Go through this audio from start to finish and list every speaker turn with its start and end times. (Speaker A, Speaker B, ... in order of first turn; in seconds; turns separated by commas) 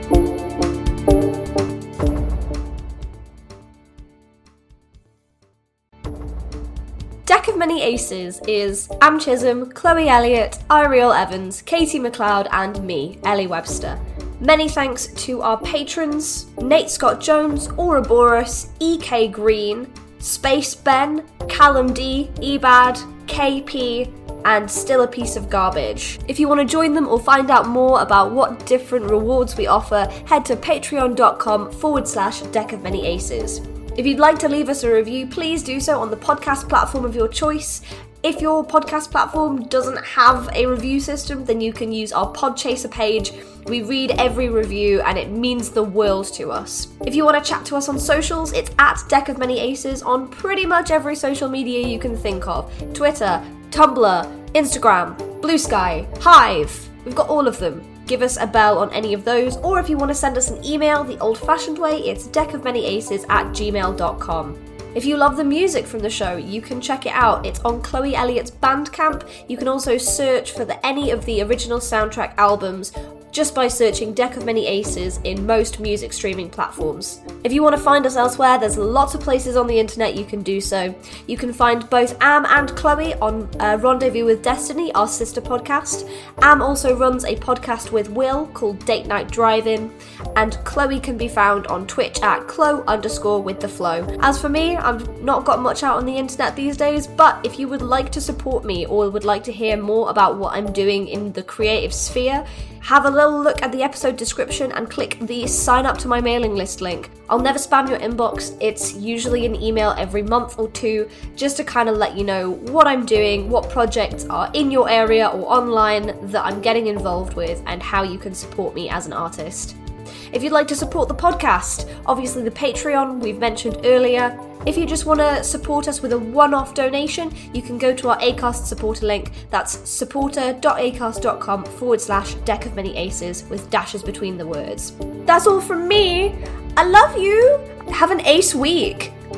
Speaker A: 7.3-119.7, Speaker A: 120.3-139.1